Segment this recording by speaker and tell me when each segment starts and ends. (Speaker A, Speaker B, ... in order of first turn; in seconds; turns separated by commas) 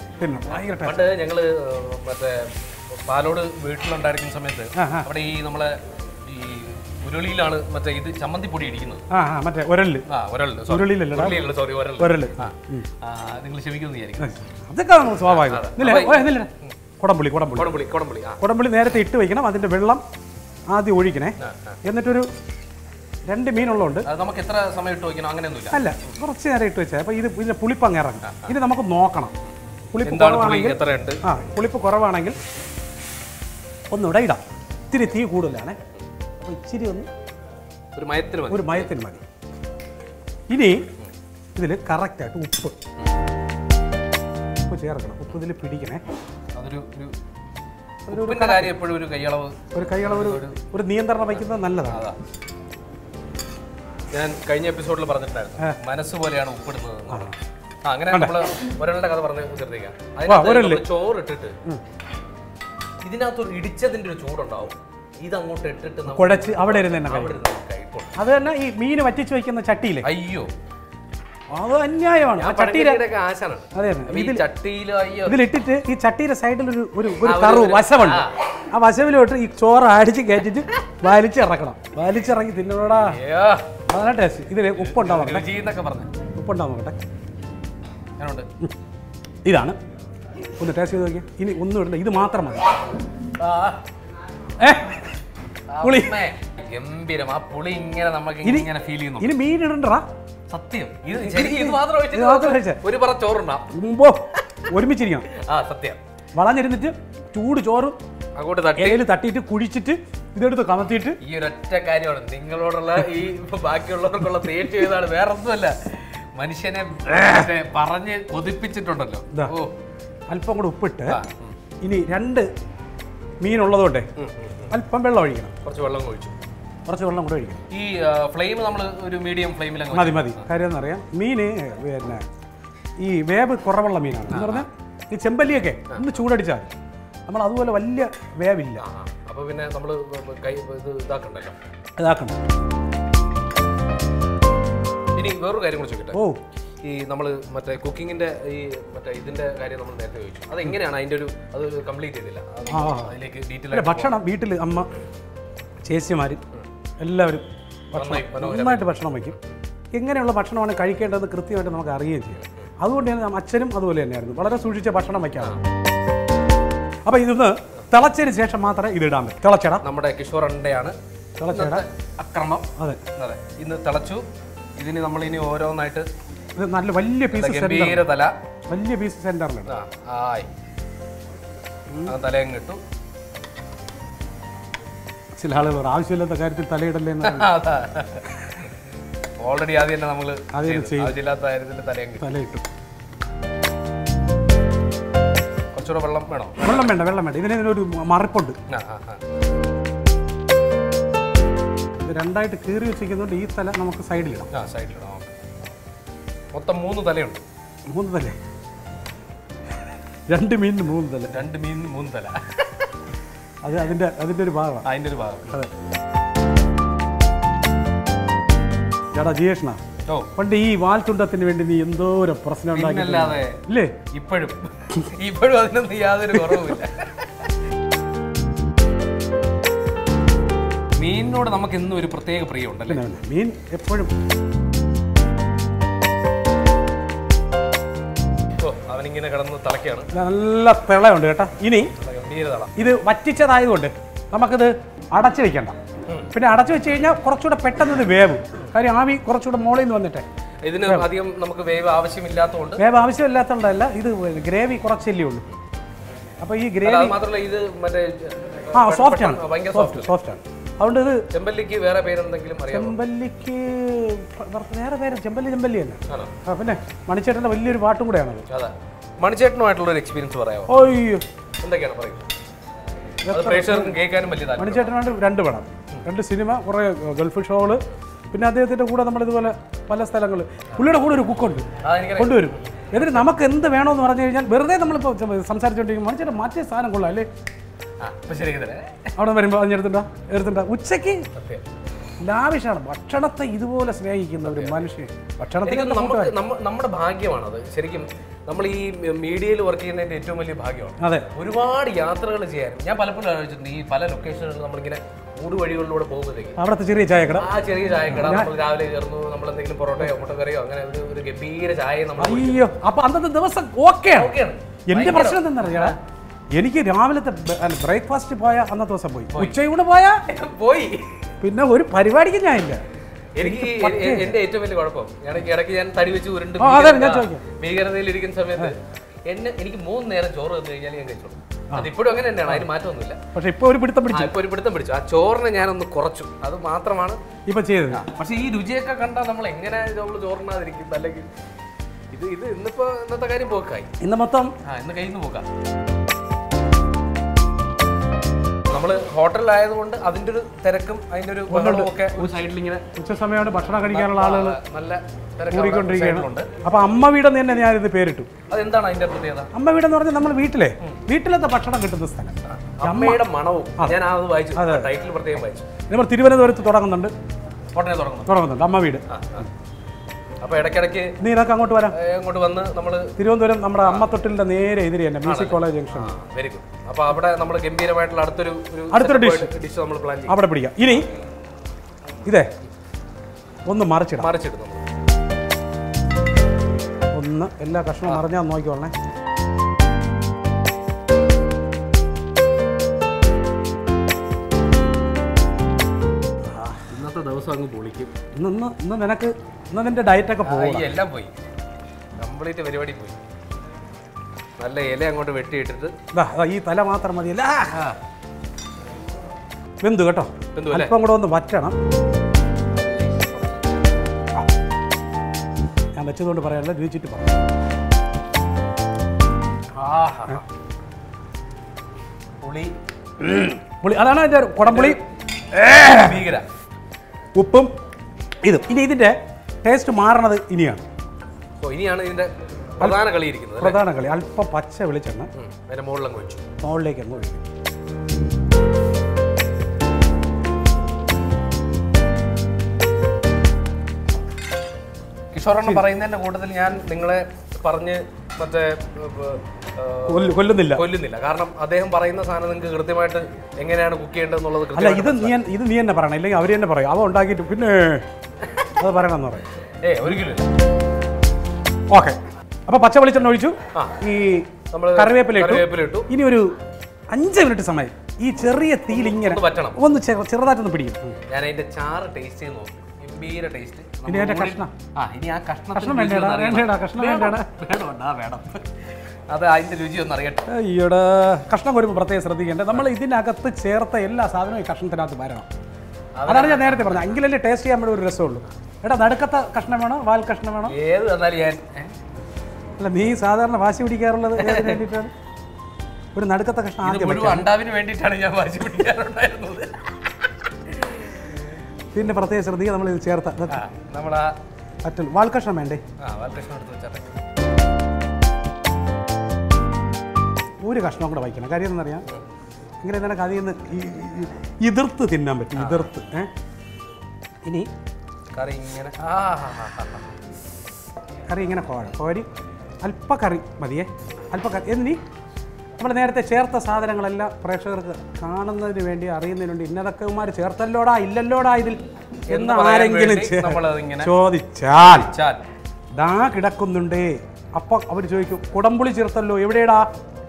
Speaker A: 0.2-1.0, Speaker B: 0.5-9.0, Speaker A: 4.8-5.1, Speaker A: 9.1-10.1, Speaker B: 10.1-14.4, Speaker A: 10.7-11.5, Speaker A: 12.0-12.9, Speaker A: 14.2-17.8, Speaker B: 15.2-16.8, Speaker B: 17.6-18.4, Speaker A: 18.4-20.0, Speaker A: 20.7-22.3, Speaker B: 21.4-21.8, Speaker A: 23.3-24.1, Speaker B: 24.1-25.8, Speaker A: 25.7-29.3, Speaker B: 28.2-28.5, Speaker A: 29.9-32.4, Speaker B: 30.0-31.2, Speaker A: 33.9-35.8, Speaker A: 36.4-37.1, Speaker B: 38.0-38.9, Speaker A: 38.5-39.2, Speaker A: 40.5-40.9, Speaker A: 41.6-42.8, Speaker A: 44.7-46.0, Speaker B: 46.6-47.1, Speaker A: 48.1-48.8, Speaker B: 48.1-50.6, Speaker A: 49.7-52.1, Speaker B: 51.9-52.2, Speaker B: 54.1-57.3, Speaker A: 57.1-57.4, Speaker B: 57.9-61.6, Speaker A: 60.3-60.8, Speaker B: 63.0-68.1, Speaker A: 66.1-67.4, Speaker A: 68.2-70.1, Speaker B: 70.0-70.5, Speaker A: 71.5-73.0, Speaker B: 72.4-75.4, Speaker A: 73.7-74.5, Speaker A: 75.3-83.2, Speaker B: 77.2-78.4, Speaker B: 83.1-83.7, Speaker A: 83.9-85.5, Speaker B: 84.8-86.1, Speaker A: 86.3-87.0, Speaker B: 88.2-88.5, Speaker A: 89.5-89.8, Speaker A: 90.6-92.8, Speaker B: 93.4-93.8, Speaker A: 94.6-95.1, Speaker B: 95.7-99.3, Speaker A: 95.8-96.2, Speaker A: 98.4-98.7, Speaker A: 99.2-100.1, Speaker B: 100.5-103.7, Speaker A: 101.2-102.8, Speaker A: 103.7-105.3, Speaker B: 105.3-106.0, Speaker A: 106.3-108.0, Speaker B: 108.4-109.0, Speaker A: 108.8-111.2, Speaker B: 111.2-119.8, Speaker A: 120.3-121.2, Speaker B: 121.1-121.6, Speaker A: 121.8-122.5, Speaker A: 123.4-124.1, Speaker B: 124.2-124.7, Speaker A: 124.7-125.5, Speaker B: 125.6-126.3, Speaker A: 126.9-127.6, Speaker B: 127.7-130.5, Speaker A: 129.9-132.2, Speaker A: 133.0-136.7, Speaker B: 134.3-134.7, Speaker A: 137.3-138.8, Speaker B: 138.8-141.6, Speaker A: 142.0-142.4, Speaker B: 145.2-146.2, Speaker A: 146.1-146.4, Speaker B: 146.8-154.2, Speaker A: 152.7-153.2, Speaker A: 153.7-154.9, Speaker A: 155.8-156.4, Speaker A: 157.0-159.4, Speaker B: 157.9-158.9, Speaker A: 159.9-165.6, Speaker A: 167.1-169.8, Speaker B: 169.8-170.9, Speaker A: 171.4-171.8, Speaker B: 171.5-174.3, Speaker B: 174.8-176.1, Speaker A: 176.6-178.1, Speaker B: 177.3-178.3, Speaker A: 178.7-179.7, Speaker B: 179.7-180.5, Speaker B: 182.1-182.8, Speaker A: 185.4-187.6, Speaker B: 187.2-188.3, Speaker B: 189.4-192.3, Speaker A: 190.5-191.2, Speaker A: 192.2-192.6, Speaker B: 195.7-196.9, Speaker A: 196.6-198.6, Speaker B: 198.7-199.2, Speaker A: 202.0-204.5, Speaker B: 204.5-205.3, Speaker B: 206.5-207.4, Speaker A: 207.9-208.4, Speaker A: 210.3-211.4, Speaker B: 211.3-212.9, Speaker A: 213.6-214.8, Speaker B: 214.8-215.6, Speaker A: 219.1-219.8, Speaker A: 220.4-224.0, Speaker B: 222.7-227.3, Speaker A: 226.3-226.7, Speaker B: 231.0-233.0, Speaker A: 232.9-234.1, Speaker B: 238.6-240.1, Speaker A: 240.1-241.9, Speaker B: 242.0-242.7, Speaker A: 242.8-245.8, Speaker B: 246.1-246.3, Speaker A: 246.3-250.2, Speaker B: 250.6-252.8, Speaker A: 252.8-255.5, Speaker A: 256.4-257.2, Speaker B: 256.8-260.1, Speaker A: 258.8-261.2, Speaker B: 261.3-263.0, Speaker A: 262.7-268.4, Speaker B: 266.1-266.3, Speaker B: 268.5-270.7, Speaker A: 270.7-271.2, Speaker B: 271.6-272.3, Speaker A: 273.2-274.0, Speaker B: 273.3-274.9, Speaker A: 274.6-287.3, Speaker B: 281.8-283.2, Speaker B: 288.0-289.1, Speaker A: 289.2-291.3, Speaker B: 291.3-291.7, Speaker A: 292.2-296.4, Speaker B: 294.4-294.8, Speaker B: 295.6-306.6, Speaker A: 301.0-301.3, Speaker A: 306.6-307.5, Speaker B: 307.3-312.6, Speaker A: 308.1-308.5, Speaker A: 312.2-314.4, Speaker B: 314.1-316.0, Speaker A: 314.9-316.0, Speaker A: 316.6-320.2, Speaker B: 320.3-321.2, Speaker A: 321.4-322.8, Speaker B: 323.4-333.2, Speaker A: 323.4-324.4, Speaker A: 326.6-327.4, Speaker A: 333.3-334.4, Speaker B: 334.1-337.2, Speaker A: 337.5-338.0, Speaker B: 337.9-341.3, Speaker B: 342.1-343.9, Speaker A: 344.0-344.5, Speaker B: 344.6-345.5, Speaker B: 348.7-352.8, Speaker A: 351.5-351.9, Speaker A: 353.0-354.6, Speaker B: 353.9-356.5, Speaker A: 355.5-358.3, Speaker B: 358.5-359.5, Speaker A: 359.5-363.2, Speaker B: 362.4-365.7, Speaker A: 364.5-364.9, Speaker A: 365.9-367.1, Speaker B: 367.7-368.4, Speaker A: 368.3-369.0, Speaker B: 369.1-369.5, Speaker B: 370.4-371.2, Speaker A: 371.2-372.0, Speaker B: 371.9-373.1, Speaker A: 373.2-376.2, Speaker B: 375.3-380.4, Speaker A: 378.9-379.5, Speaker A: 380.3-381.1, Speaker A: 382.2-382.5, Speaker A: 383.7-384.3, Speaker B: 384.2-384.8, Speaker A: 387.1-388.9, Speaker A: 396.5-396.8, Speaker B: 396.9-398.1, Speaker A: 398.4-400.9, Speaker B: 400.4-401.3, Speaker B: 402.2-403.2, Speaker B: 404.6-405.9, Speaker A: 406.1-407.8, Speaker B: 407.7-408.0, Speaker A: 409.8-411.8, Speaker B: 410.5-410.9, Speaker B: 412.8-413.9, Speaker A: 415.9-417.4, Speaker B: 419.8-420.4, Speaker B: 422.4-422.7, Speaker A: 423.2-425.0, Speaker B: 424.7-425.0, Speaker A: 425.5-426.2, Speaker B: 425.9-426.5, Speaker A: 427.4-427.7, Speaker A: 428.4-430.8, Speaker B: 431.6-433.8, Speaker A: 433.6-435.3, Speaker B: 435.4-436.4, Speaker A: 436.6-437.4, Speaker B: 445.3-455.4, Speaker A: 450.1-450.8, Speaker A: 454.7-458.1, Speaker A: 458.8-459.4, Speaker B: 459.8-460.5, Speaker A: 461.9-466.6, Speaker B: 464.7-466.1, Speaker A: 467.1-471.2, Speaker B: 468.9-469.8, Speaker B: 471.3-480.5, Speaker A: 474.1-474.7, Speaker A: 475.7-477.4, Speaker A: 480.5-485.5, Speaker B: 486.2-487.2, Speaker A: 486.3-490.8, Speaker B: 490.7-491.9, Speaker A: 492.8-495.1, Speaker B: 494.4-494.8, Speaker A: 496.1-497.5, Speaker B: 496.8-499.9, Speaker A: 501.9-503.6, Speaker B: 503.5-504.4, Speaker A: 504.8-505.8, Speaker B: 506.0-507.1, Speaker A: 510.6-512.0, Speaker A: 512.8-516.3, Speaker B: 515.6-515.9, Speaker A: 517.4-517.7, Speaker B: 518.3-520.0, Speaker A: 521.3-522.3, Speaker A: 522.8-525.0, Speaker A: 525.8-535.1, Speaker B: 532.3-534.1, Speaker B: 534.8-535.4, Speaker A: 536.0-539.9